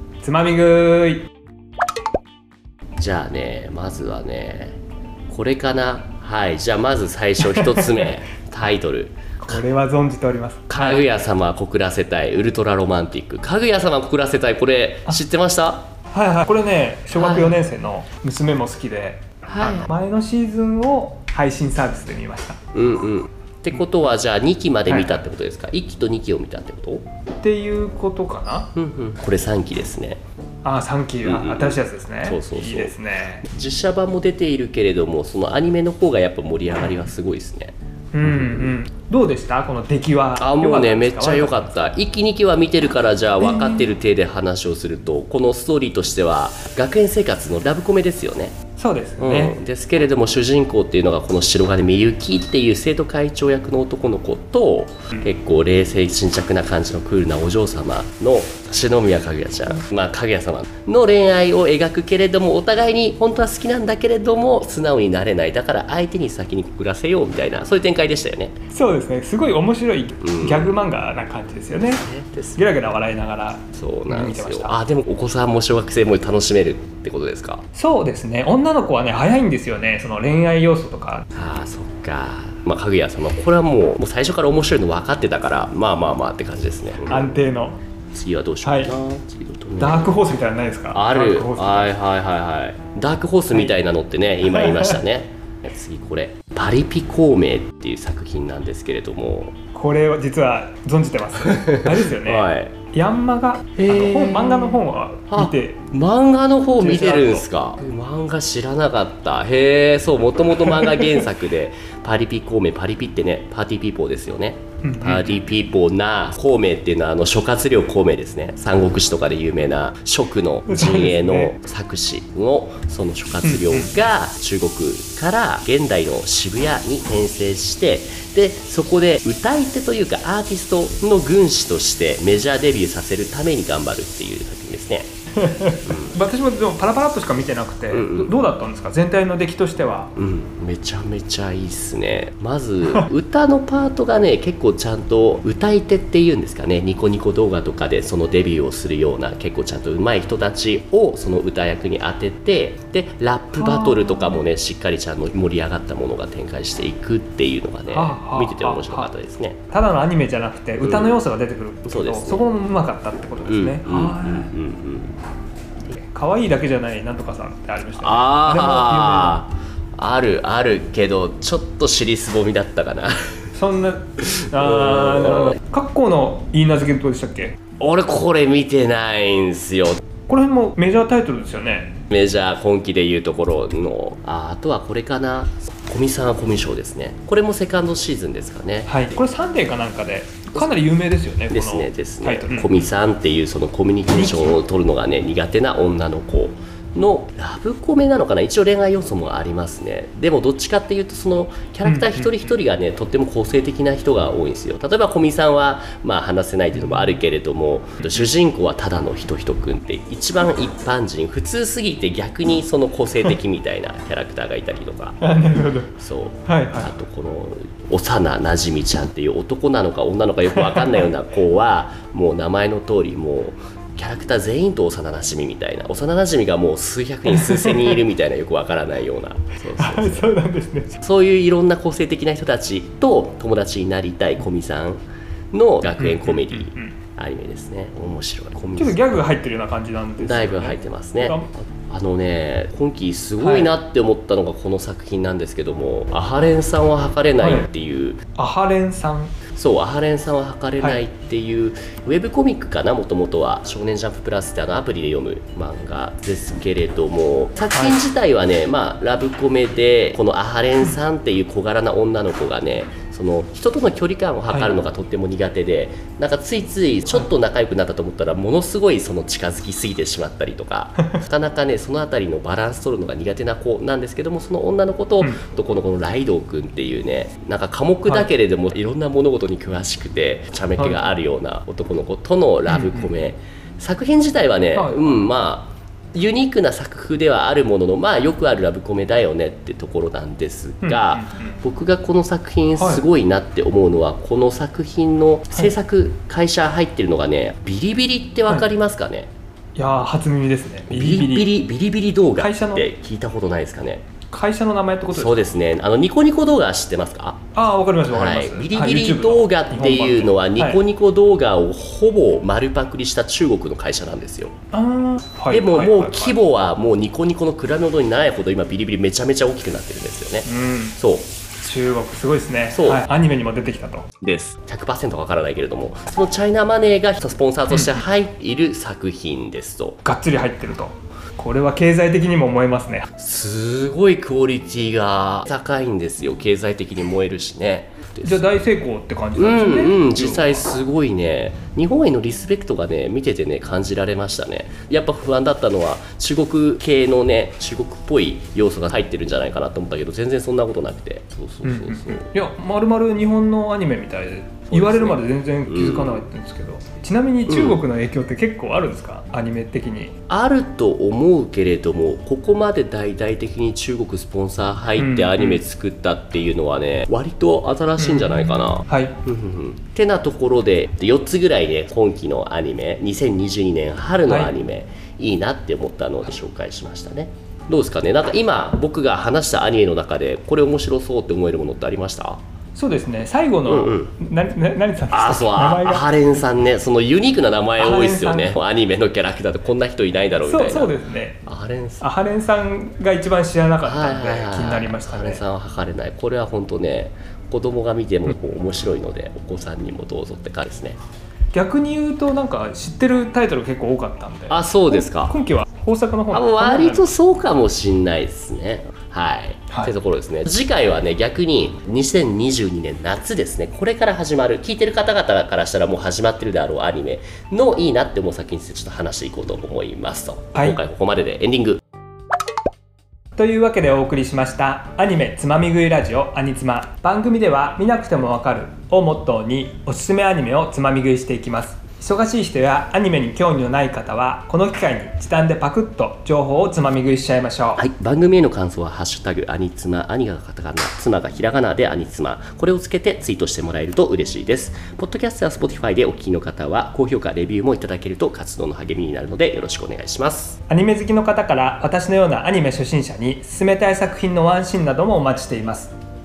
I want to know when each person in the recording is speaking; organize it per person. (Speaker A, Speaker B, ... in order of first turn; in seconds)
Speaker A: 0.2-1.3, 9.4-11.0, 16.1-22.6, 24.9-25.2, 27.4-28.7, 30.6-33.4, 38.1-41.7, 43.4-43.9, 48.8-49.5, 68.7-72.0, 72.6-74.8, 77.8-81.3, 87.1-87.8, 88.6-88.9, 89.8-91.9, 94.5-94.9, 99.7-105.8, 106.8-107.4, 114.8-115.3, 120.7-121.5, 123.4-123.9, 135.4-140.1, 153.6-154.4, 157.9-159.1, 159.7-164.5, 165.9-169.3, 173.6-177.6, 180.3-182.0, 188.9-192.7, 194.2-194.6, 201.8-202.5, 215.2-215.9, 216.5-216.9, 220.6-220.9, 227.4-227.8, 229.8-230.9, 236.0-236.9, 238.8-241.5, 243.4-243.7, 247.4-247.7, 248.4-249.3, 257.7-258.0, 280.8-281.0, 282.7-283.1, 284.8-285.2, 290.8-291.5, 292.8-293.0, 299.8-301.5, 302.4-302.9, 304.3-305.4, 307.6-310.8, 314.7-316.4, 320.5-320.9, 321.6-324.1, 330.1-333.0, 338.2-340.6, 351.6-360.1, 365.0-365.6, 368.0-369.2, 374.3-374.5, 382.8-386.1, 387.8-388.6, 390.4-391.4, 392.0-395.4, 401.5-407.1, 423.4-437.8, 450.7-455.9
Speaker B: 3.0-4.8, 5.3-9.6, 10.7-15.9, 17.1-17.6, 19.4-19.9, 22.7-27.1, 28.7-30.2, 31.2-38.7, 40.4-48.6, 49.2-68.5, 70.2-70.8, 71.8-72.7, 73.7-77.7, 81.3-87.5, 88.1-90.2, 90.9-99.6, 101.4-102.9, 103.7-135.1, 135.8-136.2, 137.9-138.3, 140.2-159.6, 160.8-161.2, 161.8-162.5, 163.4-165.2, 168.0-173.4, 174.2-175.6, 177.8-180.0, 182.0-188.9, 191.5-215.2, 215.9-230.3, 230.9-239.0, 240.2-248.2, 249.5-299.3, 300.9-304.1, 305.1-307.5, 308.1-314.6, 315.5-321.3, 322.7-323.0, 324.2-330.0, 333.1-338.6, 339.4-352.3, 354.6-356.3, 357.5-357.8, 360.3-382.4, 383.7-384.1, 385.1-392.1, 393.8-401.0, 404.5-405.4, 406.3-421.8, 437.8-450.6